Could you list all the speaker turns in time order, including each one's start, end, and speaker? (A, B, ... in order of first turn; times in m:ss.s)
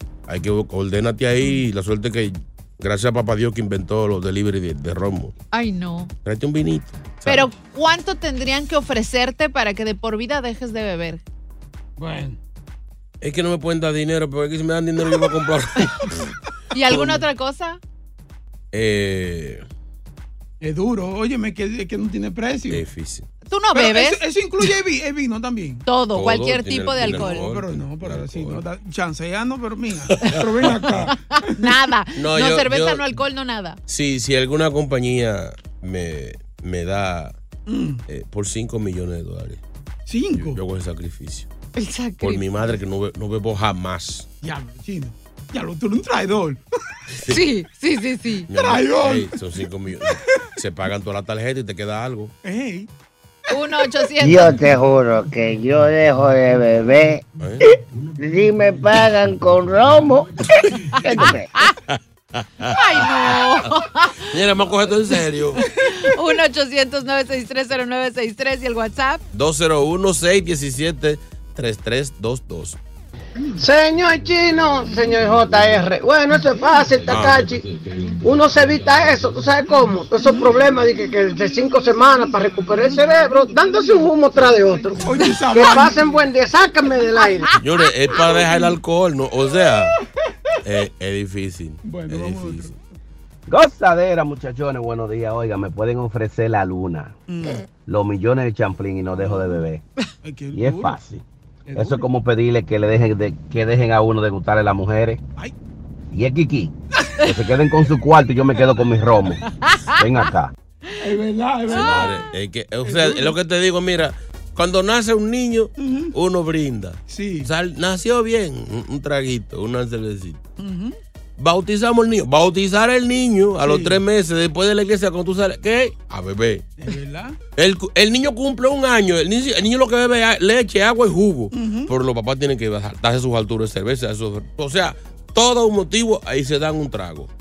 0:00.3-0:05.3 A
0:01.4-0:01.6 B
0:05.5-0:06.1 C
0:06.2-0:07.5 A
0:07.2-0:11.2 C
0:12.0-0:12.4 B
0:13.2-0:16.3 A
0:16.7-0:17.8 C
0:16.9-0:17.2 A
0:18.7-0:19.7 A
0:20.6-0:22.8 B
0:22.7-0:23.3 A
0:23.5-0:24.2 C
0:23.7-0:25.9 B
0:25.9-0:27.5 C
0:26.1-0:28.6 A
0:27.0-0:31.7 B
0:30.1-0:31.0 A
0:31.1-0:33.8 C
0:32.2-0:33.1 A
0:33.9-0:37.4 A
0:37.7-0:38.0 B
0:38.1-0:39.6 A
0:40.1-0:40.6 B
0:40.3-0:41.5 A
0:41.8-0:42.4 C
0:42.2-0:44.3 A
0:44.4-0:46.6 B
0:47.2-0:47.4 A
0:47.3-0:48.5 C
0:48.5-0:52.3 A
0:48.5-0:49.4 B
0:50.2-0:50.5 B
0:52.4-0:52.9 B
0:53.5-0:54.6 C
0:54.2-1:01.5 D
0:57.4-0:57.6 A
1:01.1-1:01.7 C
1:01.9-1:03.4 A
1:02.7-1:04.3 C
1:04.3-1:05.6 A
1:05.7-1:09.2 C
1:09.3-1:12.8 A
1:13.6-1:17.7 E
1:17.1-1:17.5 A
1:18.2-1:27.5 E
1:25.0-1:26.2 B
1:27.6-1:30.0 A
1:30.6-1:32.7 A
1:31.8-1:32.8 B
1:33.5-1:37.1 F
1:37.3-1:37.6 B
1:37.8-1:39.8 F
1:39.1-1:39.7 B
1:40.2-1:41.0 B
1:40.5-1:41.2 F
1:41.7-1:42.1 B
1:41.8-1:45.2 F
1:46.1-1:46.7 F
1:47.2-1:47.5 C
1:47.3-1:49.4 F
1:49.4-1:50.3 C
1:50.0-1:50.5 F
1:51.0-1:52.2 B
1:51.7-1:52.3 C
1:51.7-2:00.4 A
1:52.8-1:53.4 B
1:55.8-1:56.2 B
1:57.1-1:57.5 B
2:00.6-2:01.0 B
2:01.4-2:06.7 A
2:03.6-2:04.0 B
2:06.8-2:07.4 B
2:07.6-2:17.3 A
2:11.5-2:11.9 B